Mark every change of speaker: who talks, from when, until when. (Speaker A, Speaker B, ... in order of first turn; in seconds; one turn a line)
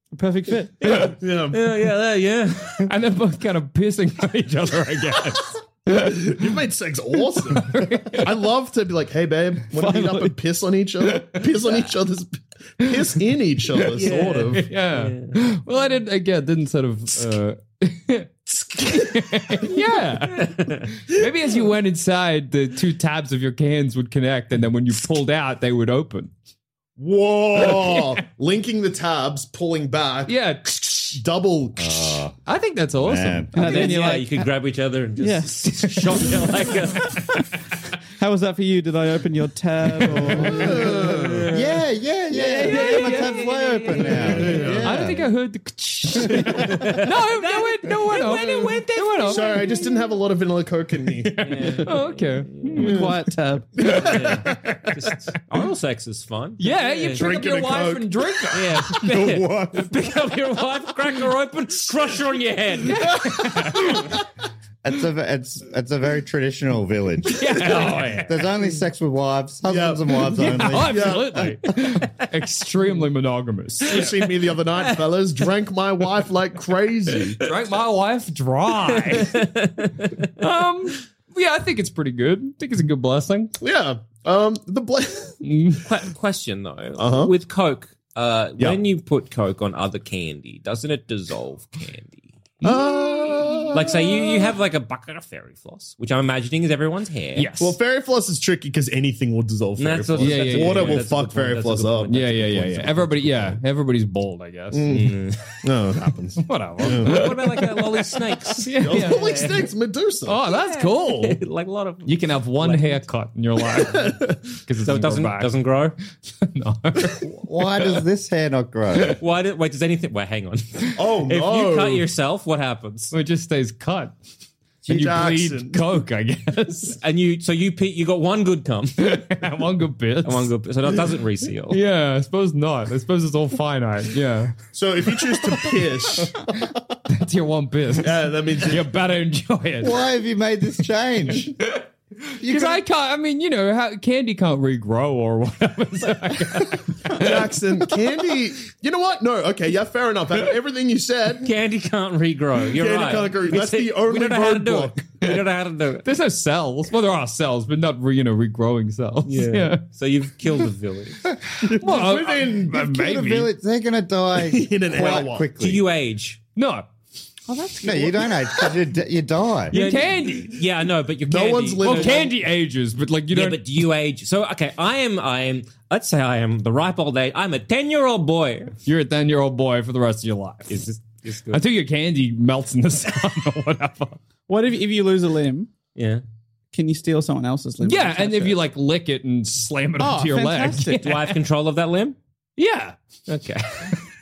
Speaker A: 0.1-0.8
Speaker B: 0.8-2.9
Speaker C: 1.2-1.6
Speaker D: 2.8-6.5
Speaker C: 5.9-14.7
Speaker D: 7.3-8.3
Speaker D: 9.8-10.2
Speaker D: 11.0-11.8
Speaker D: 12.8-13.1
Speaker D: 13.8-26.3
Speaker B: 13.9-15.4
Speaker B: 20.3-21.0
Speaker C: 27.0-30.4
Speaker D: 27.6-28.0
Speaker D: 30.3-31.2
Speaker C: 31.1-32.2
Speaker E: 31.8-32.3
Speaker D: 32.4-33.8
Speaker E: 33.0-33.5
Speaker A: 33.5-34.5
Speaker B: 33.6-37.2
Speaker A: 35.2-35.5
Speaker A: 38.2-40.7
Speaker D: 40.0-40.6
Speaker B: 40.5-41.8
Speaker C: 40.5-41.5
Speaker E: 41.5-45.2
Speaker B: 42.3-45.0
Speaker D: 42.5-49.9
Speaker C: 44.5-44.9
Speaker B: 46.3-49.7
Speaker C: 49.2-51.9
Speaker D: 51.2-53.2
Speaker B: 51.4-52.8
Speaker C: 52.8-53.1
Speaker A: 52.8-53.8
Speaker C: 53.8-54.6
Speaker D: 53.8-54.2
Speaker B: 53.9-57.3
Speaker D: 56.6-58.9
Speaker C: 57.1-58.1
Speaker B: 58.5-63.3
Speaker E: 59.3-59.5
Speaker D: 62.9-64.0
Speaker E: 64.8-71.7
Speaker D: 67.4-68.3
Speaker B: 67.5-68.4
Speaker C: 69.7-71.6
Speaker D: 70.3-74.4
Speaker C: 73.9-77.4
Speaker D: 77.4-79.4
Speaker B: 78.9-80.3
Speaker D: 80.4-83.5
Speaker C: 83.6-85.4
Speaker D: 85.4-85.8
Speaker B: 85.9-92.3
Speaker C: 87.0-87.3
Speaker D: 92.6-93.8
Speaker C: 92.6-94.5
Speaker B: 93.7-97.5
Speaker D: 97.4-97.8
Speaker C: 97.6-103.6
Speaker B: 99.8-102.3
Speaker D: 100.2-101.1
Speaker D: 102.1-105.0
Speaker C: 104.7-107.3
Speaker B: 104.9-105.4
Speaker D: 106.4-108.1
Speaker B: 107.0-109.7
Speaker D: 108.6-109.2
Speaker C: 108.8-110.4
Speaker D: 110.2-111.4
Speaker B: 110.5-113.0
Speaker D: 112.0-115.5
Speaker C: 113.8-114.4
Speaker B: 114.8-116.0
Speaker D: 116.4-117.3
Speaker E: 117.3-119.2
Speaker B: 119.2-123.1
Speaker C: 121.0-122.1
Speaker D: 123.1-124.1
Speaker C: 124.8-125.9
Speaker D: 124.9-127.0
Speaker B: 127.0-129.1
Speaker D: 129.0-130.5
Speaker B: 130.2-131.8
Speaker D: 131.7-134.6
Speaker C: 134.7-136.3
Speaker D: 137.1-139.9
Speaker C: 138.0-138.8
Speaker E: 139.8-141.6
Speaker D: 141.6-147.5
Speaker E: 142.4-142.8
Speaker C: 147.1-151.5
Speaker B: 151.4-156.1
Speaker C: 152.7-155.0
Speaker D: 156.1-159.8
Speaker B: 159.3-161.3
Speaker C: 161.6-162.8
Speaker D: 161.8-163.5
Speaker E: 162.7-165.8
Speaker C: 164.4-165.5
Speaker B: 164.9-166.4
Speaker D: 166.6-166.9
Speaker A: 167.5-168.4
Speaker E: 167.8-169.7
Speaker D: 169.7-170.6
Speaker B: 169.7-172.2
Speaker C: 171.3-172.4
Speaker D: 171.8-173.7
Speaker B: 173.3-178.7
Speaker D: 178.8-180.8
Speaker B: 180.7-181.6
Speaker D: 181.5-184.2
Speaker A: 184.5-185.7
Speaker B: 185.9-186.2
Speaker A: 186.7-188.6
Speaker D: 187.8-191.2
Speaker A: 190.0-191.2
Speaker B: 191.0-192.2
Speaker D: 192.6-193.0
Speaker B: 193.3-193.9